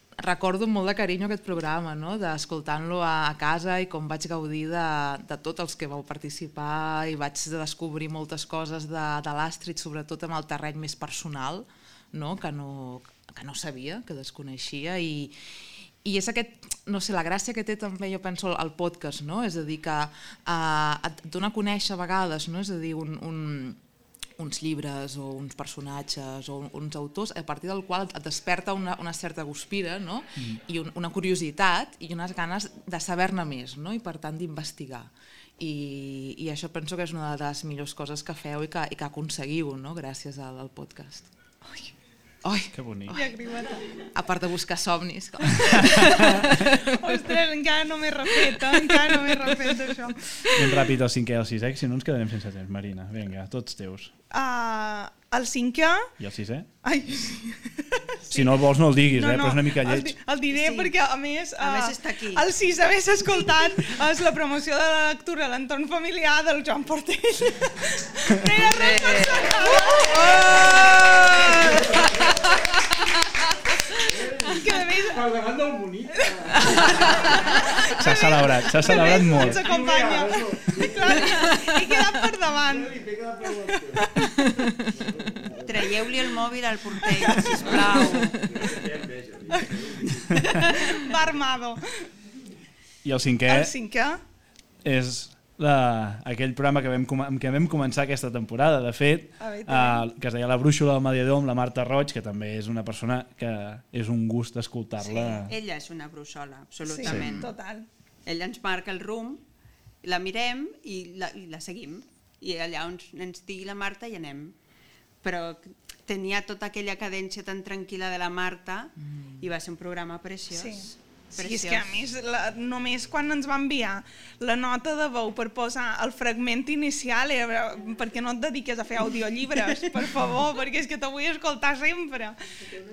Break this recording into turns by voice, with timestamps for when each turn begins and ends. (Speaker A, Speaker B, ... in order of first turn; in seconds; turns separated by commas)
Speaker A: 0.2-23.8, Speaker A: 24.4-41.3, Speaker A: 42.4-43.2, Speaker B: 42.7-43.2, Speaker C: 43.1-43.9, Speaker A: 44.0-46.9, Speaker C: 45.9-50.6, Speaker A: 48.5-49.4, Speaker B: 50.5-54.1, Speaker C: 54.3-56.1, Speaker B: 56.2-56.7, Speaker C: 56.8-58.6, Speaker B: 58.3-60.1, Speaker C: 59.1-72.3, Speaker D: 60.5-60.9, Speaker D: 61.6-62.5, Speaker A: 68.7-72.6, Speaker D: 69.1-69.5, Speaker C: 74.0-84.7, Speaker A: 77.1-77.3, Speaker B: 77.9-79.7, Speaker A: 84.4-85.0, Speaker D: 85.5-88.6, Speaker C: 87.0-87.6, Speaker C: 89.5-92.1, Speaker B: 93.0-93.7, Speaker C: 93.5-94.2, Speaker B: 94.8-105.5, Speaker C: 99.4-100.1, Speaker D: 105.0-107.5, Speaker C: 106.9-107.9, Speaker B: 107.1-107.3, Speaker D: 108.3-109.4, Speaker D: 110.0-114.6, Speaker D: 115.2-122.0, Speaker C: 120.5-132.4